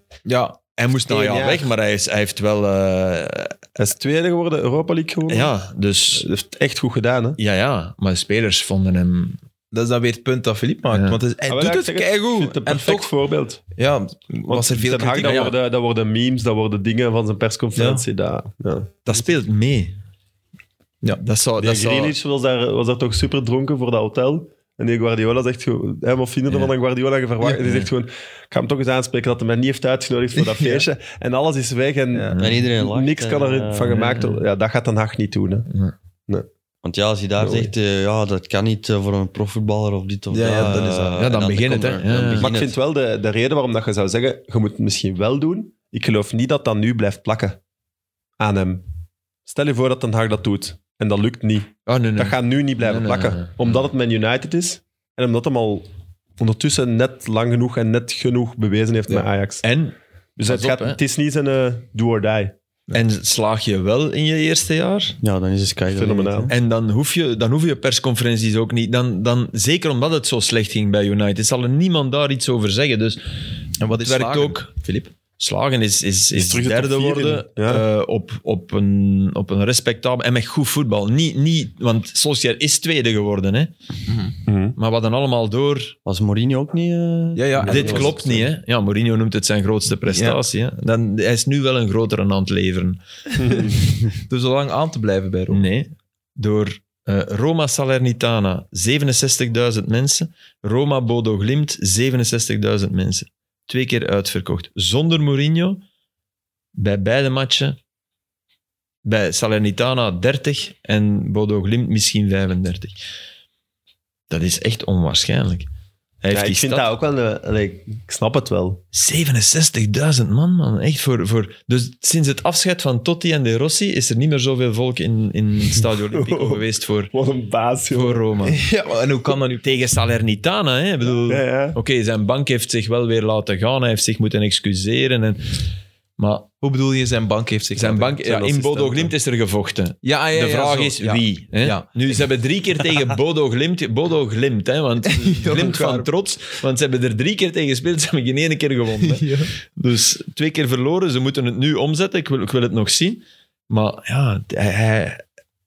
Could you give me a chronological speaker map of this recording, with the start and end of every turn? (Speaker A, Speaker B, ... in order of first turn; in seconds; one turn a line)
Speaker A: 0.2-0.6
Speaker B: 0.8-3.6
Speaker C: 1.1-1.7
Speaker C: 3.8-5.5
Speaker B: 5.3-6.3
Speaker C: 6.1-7.4
Speaker B: 7.4-9.4
Speaker A: 9.7-13.1
Speaker B: 10.9-11.2
Speaker C: 11.5-13.6
Speaker A: 13.8-15.5
Speaker C: 14.5-18.9
Speaker B: 15.2-15.6
Speaker A: 17.8-18.0
Speaker B: 19.1-20.0
Speaker B: 21.2-22.2
Speaker C: 21.6-35.7
Speaker A: 30.4-30.8
Speaker A: 32.1-32.4
Speaker B: 32.3-32.7
Speaker D: 32.4-34.0
Speaker B: 33.9-34.4
Speaker B: 35.7-35.9
Speaker D: 36.8-42.7
Speaker C: 37.4-37.7
Speaker A: 40.3-41.3
Speaker B: 40.5-42.5
Speaker C: 42.4-47.6
Speaker C: 48.4-48.8
Speaker C: 49.5-59.6
Speaker B: 51.9-53.6
Speaker B: 59.6-61.0
Speaker C: 60.4-62.5
Speaker B: 62.9-65.2
Speaker D: 65.2-66.5
Speaker C: 65.9-66.5
Speaker B: 66.5-73.3
Speaker A: 73.8-75.1
Speaker B: 73.9-74.7
Speaker B: 75.3-83.7
Speaker C: 76.4-77.8
Speaker A: 84.1-84.3
Speaker C: 84.5-84.8
Speaker B: 84.8-86.0
Speaker D: 86.0-87.5
Speaker A: 87.4-88.3
Speaker C: 87.6-88.5
Speaker B: 87.7-93.6
Speaker A: 90.1-90.4
Speaker C: 93.4-93.7
Speaker A: 93.6-95.6
Speaker B: 95.5-105.8
Speaker B: 106.8-107.8
Speaker B: 109.0-113.0
Speaker B: 114.3-115.7
Speaker B: 116.2-116.9
Speaker C: 116.3-118.8
Speaker B: 118.9-127.1
Speaker C: 126.1-128.3
Speaker B: 127.9-128.6
Speaker A: 128.5-129.9
Speaker B: 129.6-135.7
Speaker C: 131.2-131.8
Speaker B: 136.2-136.5
Speaker A: 136.6-138.2
Speaker B: 137.8-155.2
Speaker C: 138.2-139.1
Speaker A: 140.0-142.1
Speaker A: 145.1-146.1
Speaker A: 149.0-149.5